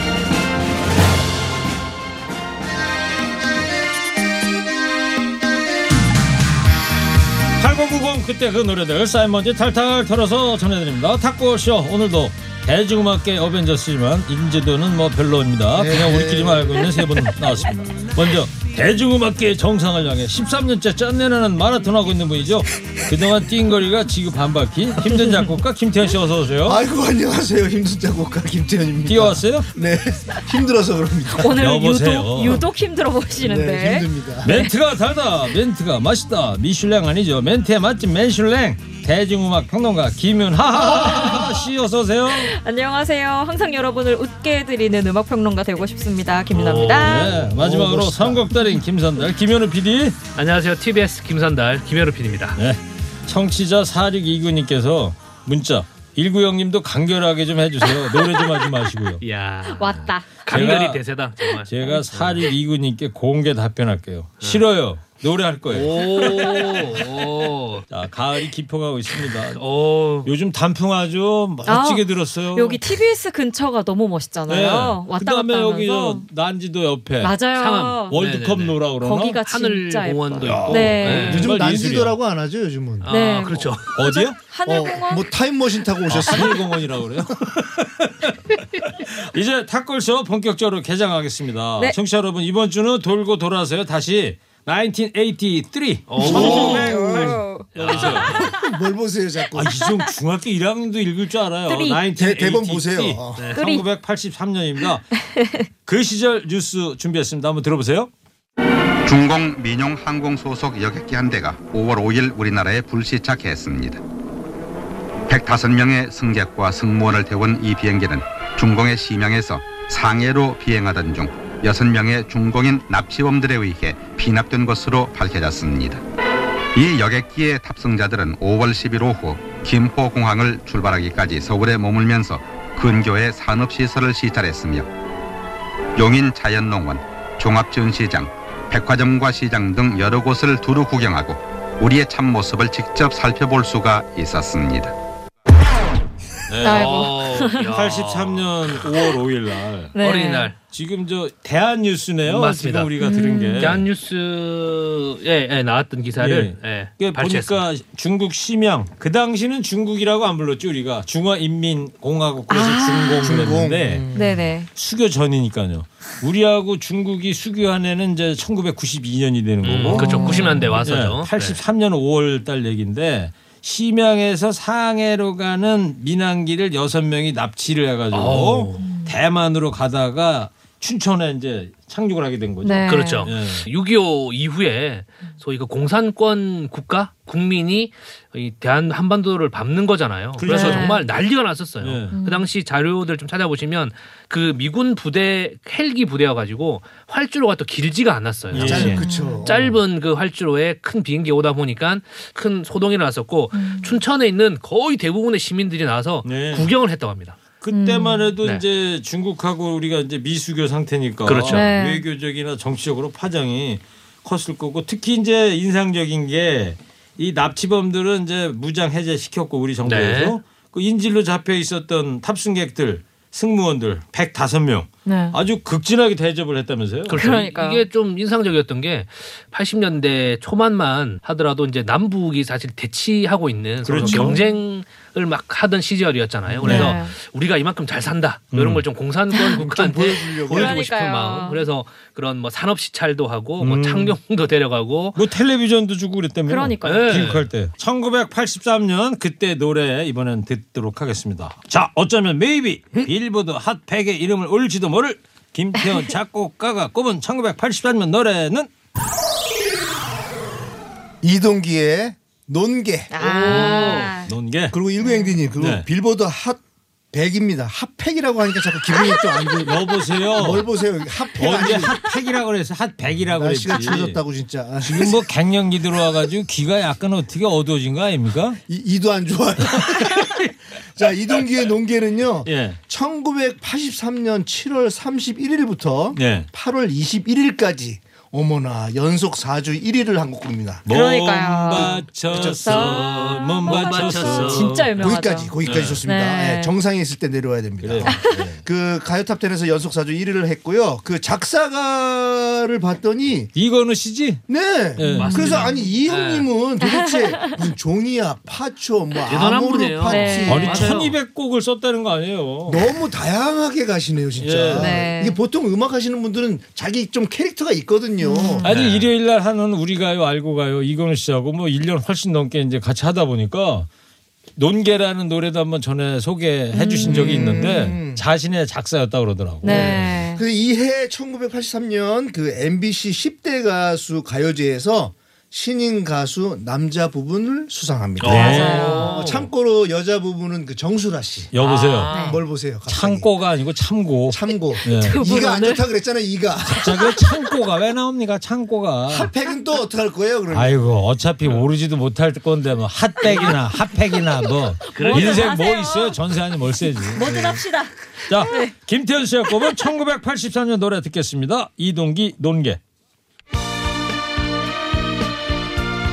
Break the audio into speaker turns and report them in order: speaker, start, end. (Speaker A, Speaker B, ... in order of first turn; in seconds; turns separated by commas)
Speaker A: 7.6-26.8, Speaker B: 15.7-17.1, Speaker B: 26.6-31.6, Speaker A: 29.1-29.7, Speaker C: 31.4-34.7, Speaker A: 31.6-32.6, Speaker B: 33.4-34.6, Speaker A: 34.4-42.5, Speaker C: 40.8-41.5, Speaker C: 42.3-47.5, Speaker D: 46.5-47.2, Speaker A: 46.9-50.2, Speaker B: 47.5-48.4, Speaker C: 48.5-48.8, Speaker D: 50.3-52.6, Speaker A: 52.5-59.2, Speaker C: 57.9-58.7, Speaker D: 59.2-62.4, Speaker C: 59.6-60.7, Speaker A: 60.5-61.0, Speaker A: 61.6-66.5, Speaker D: 65.7-67.9, Speaker C: 66.0-66.8, Speaker A: 67.9-69.6, Speaker D: 69.5-70.3, Speaker A: 70.2-72.8, Speaker C: 71.7-76.3, Speaker A: 74.5-77.4, Speaker C: 77.2-78.2, Speaker D: 77.5-78.8, Speaker A: 78.1-79.4, Speaker C: 79.0-81.5, Speaker D: 79.4-81.9, Speaker A: 80.4-82.1, Speaker B: 81.1-83.1, Speaker D: 83.0-84.0, Speaker C: 83.1-85.3, Speaker A: 83.9-84.4, Speaker B: 84.7-86.7, Speaker A: 86.1-98.4, Speaker D: 96.1-96.9, Speaker C: 96.2-97.7, Speaker B: 96.2-97.3, Speaker D: 97.7-98.5, Speaker C: 98.2-98.6, Speaker B: 98.3-99.8, Speaker A: 99.5-105.0, Speaker C: 101.7-102.0, Speaker B: 102.1-103.5, Speaker D: 103.4-103.6, Speaker C: 103.5-103.8, Speaker C: 105.2-105.7, Speaker A: 105.8-108.1, Speaker E: 109.0-114.0, Speaker E: 115.3-126.0, Speaker E: 126.7-134.9, Speaker E: 136.0-144.9, Speaker A: 146.5-147.0, Speaker C: 146.6-147.6, Speaker D: 146.6-148.8, Speaker A: 147.7-149.9, Speaker C: 149.9-150.5, Speaker D: 150.0-150.6, Speaker A: 150.6-153.8, Speaker D: 152.2-152.9, Speaker C: 153.0-153.8, Speaker D: 153.6-157.6, Speaker A: 156.2-164.1, Speaker C: 162.5-163.4, Speaker B: 163.2-164.4, Speaker C: 164.1-164.7, Speaker A: 164.7-183.7, Speaker D: 169.6-171.6, Speaker B: 169.9-170.5, Speaker C: 169.9-170.7, Speaker D: 178.1-178.9, Speaker C: 178.8-179.1, Speaker C: 182.6-183.3, Speaker D: 182.9-207.4, Speaker A: 190.4-191.0, Speaker C: 190.5-191.0, Speaker A: 191.8-192.2, Speaker C: 192.1-192.4, Speaker A: 198.5-199.0, Speaker B: 198.5-199.7, Speaker C: 199.0-199.4, Speaker C: 203.5-204.0, Speaker A: 206.2-206.7, Speaker A: 207.6-227.4, Speaker C: 207.7-208.3, Speaker D: 211.2-211.6, Speaker C: 211.5-212.0, Speaker D: 219.8-220.3, Speaker C: 225.1-225.4, Speaker D: 227.1-245.2, Speaker C: 227.1-227.8, Speaker A: 233.8-234.4, Speaker C: 234.0-234.6, Speaker A: 236.6-237.0, Speaker C: 236.6-237.1, Speaker A: 238.5-238.8, Speaker C: 239.3-239.6, Speaker B: 239.5-240.8, Speaker C: 240.5-241.6, Speaker A: 243.6-244.1, Speaker A: 245.1-258.7, Speaker C: 246.5-247.2, Speaker D: 246.8-247.4, Speaker B: 261.2-263.6, Speaker C: 263.1-264.3, Speaker D: 263.2-264.2, Speaker A: 263.6-264.8, Speaker B: 264.7-272.0, Speaker C: 265.0-265.4, Speaker A: 265.6-265.9, Speaker A: 269.6-270.7, Speaker A: 271.4-274.2, Speaker B: 273.2-275.3, Speaker A: 274.8-278.6, Speaker B: 278.7-290.9, Speaker A: 279.8-280.4, Speaker A: 282.4-282.8, Speaker A: 286.1-286.5, Speaker A: 290.8-294.9, Speaker C: 290.9-292.0, Speaker B: 292.3-292.6, Speaker D: 292.4-294.9, Speaker C: 292.6-295.5, Speaker B: 295.0-303.5, Speaker A: 295.6-296.0, Speaker D: 295.6-295.9, Speaker C: 296.0-296.7, Speaker A: 297.8-298.6, Speaker C: 298.0-298.5, Speaker A: 303.5-304.4, Speaker B: 304.5-311.0, Speaker A: 304.9-305.6, Speaker C: 305.1-305.9, Speaker D: 305.1-306.5, Speaker C: 306.8-307.6, Speaker D: 309.2-311.1, Speaker C: 310.0-310.7, Speaker A: 310.4-312.8, Speaker B: 312.6-318.6, Speaker A: 314.4-315.0, Speaker C: 314.7-315.4, Speaker C: 318.2-318.8, Speaker A: 318.6-323.9, Speaker D: 318.6-319.1, Speaker A: 324.6-330.1, Speaker C: 326.7-327.6, Speaker B: 327.1-328.2, Speaker C: 329.6-330.4, Speaker B: 329.6-341.5, Speaker D: 338.2-339.5, Speaker A: 338.3-339.1, Speaker C: 338.3-339.2, Speaker A: 341.5-342.1, Speaker D: 341.6-342.4, Speaker C: 342.1-342.4, Speaker B: 342.1-343.3, Speaker A: 342.9-345.2, Speaker B: 344.3-347.1, Speaker C: 344.7-345.9, Speaker A: 346.7-349.3, Speaker C: 346.8-347.4, Speaker B: 349.1-350.8, Speaker A: 350.5-357.4, Speaker D: 353.2-353.5, Speaker D: 354.9-355.5, Speaker C: 354.9-356.2, Speaker C: 356.9-358.7, Speaker A: 358.3-362.8, Speaker C: 359.5-359.8